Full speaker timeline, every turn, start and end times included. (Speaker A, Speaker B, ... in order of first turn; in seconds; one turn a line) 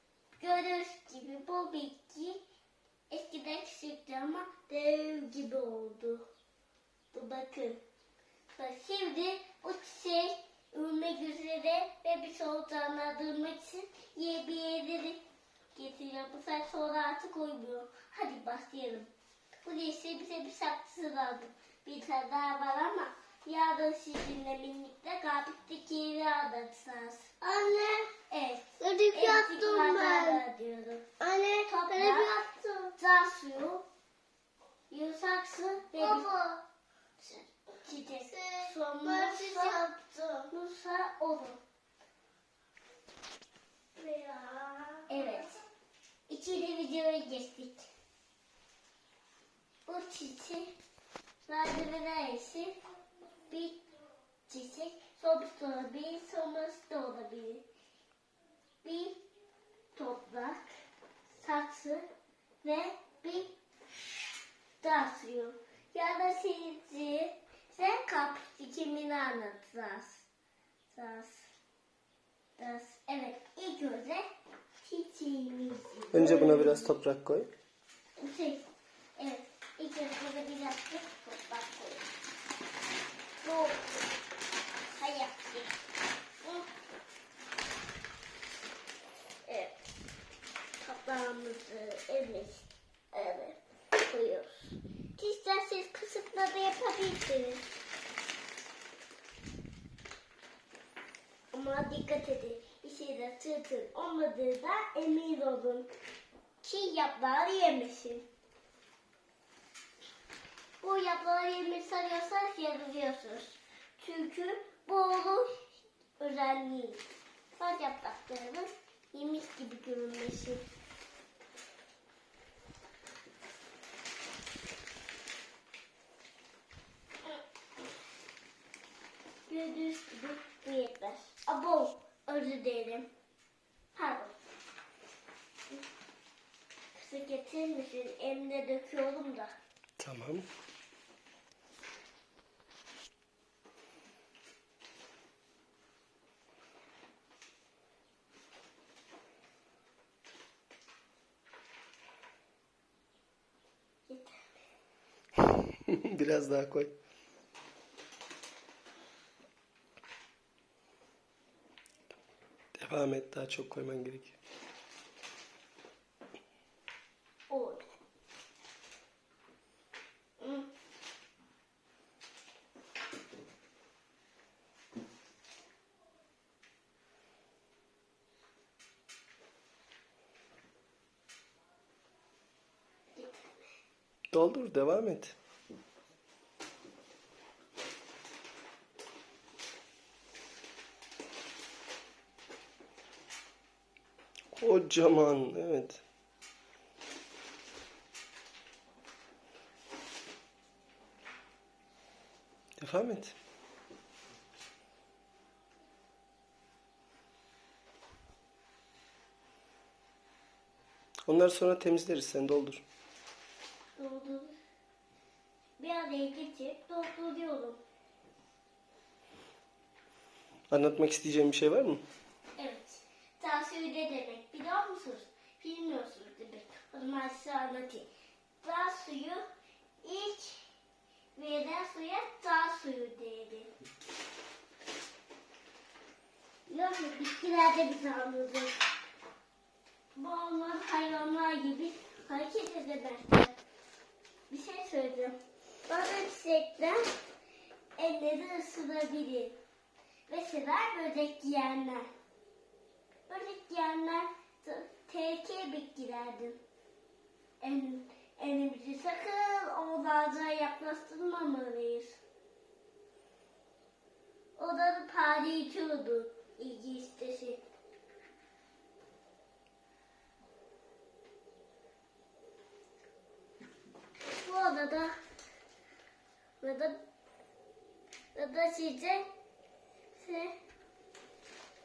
Speaker A: 0.4-2.4
Speaker A: 3.1-6.2
Speaker A: 7.1-7.8
Speaker A: 8.5-15.2
Speaker A: 15.8-19.1
Speaker A: 19.6-31.1
Speaker B: 28.8-30.4
Speaker B: 31.2-33.0
Speaker A: 31.7-32.4
Speaker A: 33.0-33.8
Speaker A: 34.9-36.3
Speaker B: 35.9-36.6
Speaker A: 37.2-39.8
Speaker B: 38.2-40.5
Speaker A: 40.5-41.6
Speaker B: 44.0-45.6
Speaker A: 45.1-45.6
Speaker A: 46.3-47.9
Speaker A: 49.9-50.7
Speaker A: 51.5-52.8
Speaker A: 53.5-53.8
Speaker A: 54.5-57.6
Speaker A: 58.8-59.2
Speaker A: 60.0-60.6
Speaker A: 61.4-62.1
Speaker A: 62.6-63.5
Speaker A: 64.8-70.3
Speaker A: 70.9-71.5
Speaker A: 72.6-74.2
Speaker A: 74.8-77.0
Speaker C: 76.1-77.5
Speaker A: 78.2-82.1
Speaker A: 83.4-84.0
Speaker A: 84.9-85.8
Speaker A: 86.4-86.7
Speaker A: 89.5-89.8
Speaker A: 90.8-97.7
Speaker A: 101.5-105.9
Speaker A: 106.6-108.3
Speaker A: 110.8-115.5
Speaker A: 116.2-117.0
Speaker A: 117.5-120.7
Speaker A: 129.5-133.1
Speaker A: 133.9-134.4
Speaker A: 136.9-139.5
Speaker C: 140.0-140.5
Speaker A: 154.1-154.7
Speaker C: 155.9-156.9
Speaker C: 162.8-164.4
Speaker A: 167.5-167.8
Speaker A: 170.4-170.7
Speaker A: 183.2-183.5
Speaker C: 184.3-185.3
Speaker C: 194.5-196.0
Speaker C: 202.8-203.4
Speaker C: 211.3-212.8
Speaker A: 214.0-214.6
Speaker A: 215.8-217.8
Speaker C: 220.7-222.0
Speaker A: 222.6-228.1
Speaker A: 228.6-229.4
Speaker A: 230.0-230.7
Speaker A: 231.3-233.7
Speaker A: 236.7-238.8
Speaker A: 240.2-243.6
Speaker A: 244.5-247.1
Speaker A: 248.0-249.6
Speaker A: 250.3-252.1
Speaker A: 253.3-256.6
Speaker A: 257.6-262.2
Speaker A: 264.6-267.6
Speaker A: 274.3-275.2
Speaker A: 276.6-277.0
Speaker A: 278.4-279.2
Speaker A: 280.1-280.6